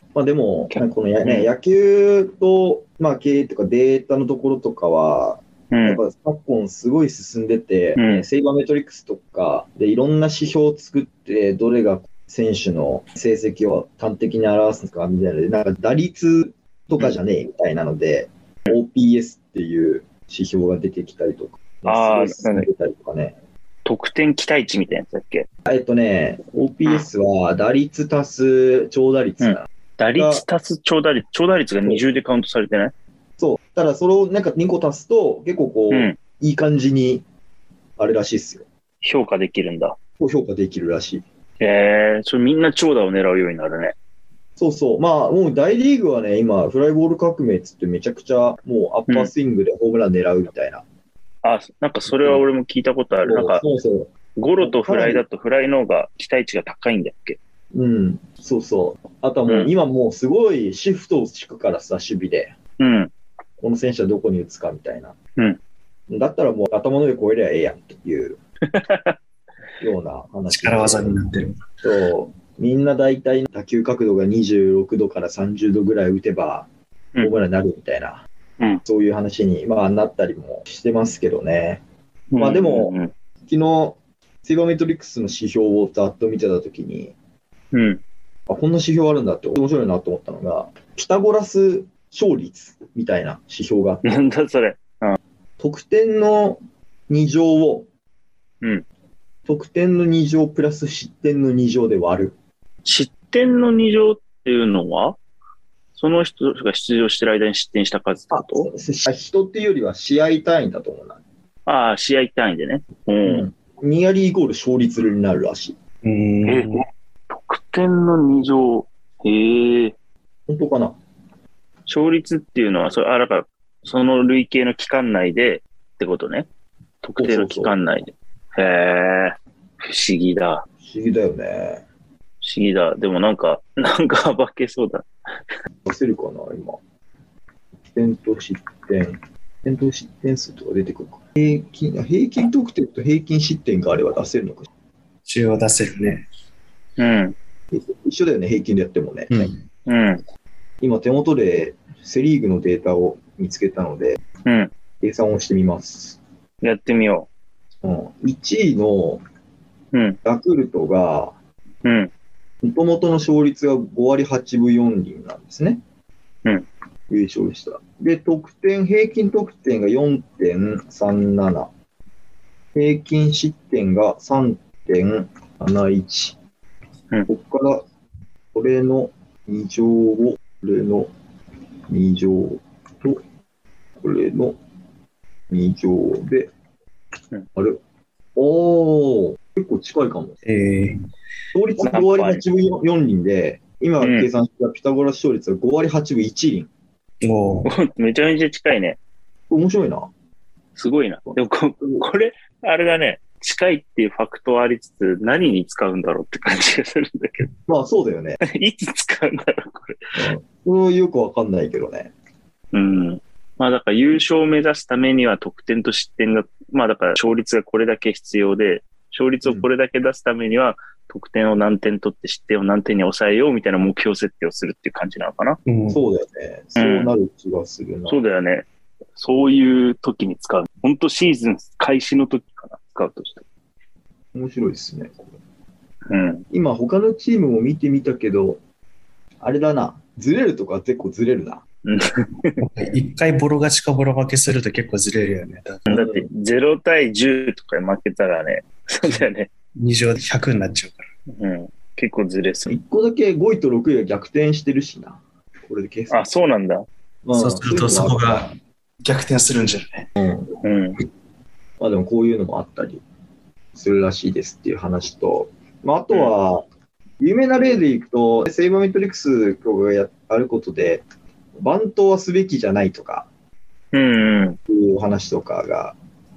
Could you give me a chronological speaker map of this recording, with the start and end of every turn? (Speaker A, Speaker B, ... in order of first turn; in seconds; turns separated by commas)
Speaker A: 0.1-23.3, Speaker B: 0.7-1.5, Speaker B: 5.7-6.0, Speaker B: 8.0-8.2, Speaker B: 21.9-22.7, Speaker B: 23.8-25.5, Speaker A: 25.7-30.4, Speaker B: 29.4-32.9, Speaker A: 33.4-37.2, Speaker B: 35.9-36.2, Speaker A: 38.0-38.6, Speaker B: 39.0-40.0, Speaker A: 40.2-41.2, Speaker B: 41.6-44.0, Speaker A: 44.6-50.8, Speaker B: 51.4-53.6, Speaker A: 52.1-52.4, Speaker A: 53.2-55.2, Speaker B: 54.4-57.4, Speaker A: 57.7-62.5, Speaker B: 59.5-59.7, Speaker B: 62.8-63.1, Speaker A: 63.6-65.1, Speaker A: 66.1-68.4, Speaker B: 68.7-69.1, Speaker A: 69.8-71.2, Speaker C: 70.5-71.6, Speaker A: 71.8-76.7, Speaker A: 77.2-78.2, Speaker A: 78.8-81.8, Speaker B: 82.3-83.1, Speaker A: 82.4-87.1, Speaker B: 87.7-88.0, Speaker A: 88.5-94.2, Speaker B: 94.0-95.2, Speaker A: 95.6-97.8, Speaker A: 99.5-102.3, Speaker B: 102.8-105.2, Speaker B: 105.9-108.7, Speaker A: 108.3-111.2, Speaker B: 111.7-113.5, Speaker A: 113.2-115.8, Speaker C: 116.0-116.8, Speaker B: 116.4-119.9, Speaker A: 120.5-121.0, Speaker B: 121.9-126.5, Speaker B: 127.0-130.6, Speaker A: 127.2-127.8, Speaker A: 130.8-131.8, Speaker B: 132.4-135.1, Speaker A: 135.8-136.8, Speaker A: 137.9-144.7, Speaker C: 145.2-146.2, Speaker B: 147.0-147.3, Speaker A: 147.7-149.6, Speaker B: 149.9-150.2, Speaker A: 150.8-154.2, Speaker B: 154.4-154.7, Speaker A: 155.0-156.2, Speaker B: 156.6-157.3, Speaker A: 157.8-159.2, Speaker B: 159.9-160.2, Speaker A: 160.2-161.3, Speaker B: 161.8-162.1, Speaker A: 162.6-165.8, Speaker A: 167.1-171.7, Speaker A: 172.7-176.4, Speaker A: 177.3-177.8, Speaker A: 178.5-181.1, Speaker A: 181.9-183.2, Speaker A: 184.0-184.6, Speaker A: 185.5-186.5, Speaker A: 188.3-190.4, Speaker C: 190.4-191.0, Speaker A: 191.5-196.7, Speaker B: 191.8-192.4, Speaker B: 194.0-194.3, Speaker C: 197.2-197.7, Speaker B: 197.6-199.0, Speaker A: 199.5-200.1, Speaker B: 200.8-207.5, Speaker A: 207.7-208.4, Speaker B: 208.5-210.0, Speaker A: 210.1-212.1, Speaker B: 212.7-225.6, Speaker A: 219.4-219.7, Speaker C: 225.7-226.0, Speaker A: 225.9-228.2, Speaker B: 226.8-227.1, Speaker B: 228.1-233.4, Speaker A: 234.3-235.3, Speaker B: 236.1-236.4, Speaker A: 236.5-238.6, Speaker A: 239.4-241.6, Speaker B: 241.8-242.6, Speaker C: 242.6-245.9, Speaker B: 245.9-249.5, Speaker A: 245.9-246.3, Speaker C: 249.8-251.0, Speaker B: 251.3-252.7, Speaker A: 252.7-256.2, Speaker B: 256.1-256.8, Speaker A: 257.2-258.5, Speaker C: 257.3-258.5, Speaker C: 259.0-260.1, Speaker A: 260.2-260.5, Speaker B: 260.6-261.0, Speaker A: 261.8-263.0, Speaker A: 263.7-266.6, Speaker A: 267.2-271.0, Speaker A: 271.6-273.3, Speaker B: 273.9-274.6, Speaker A: 274.7-275.9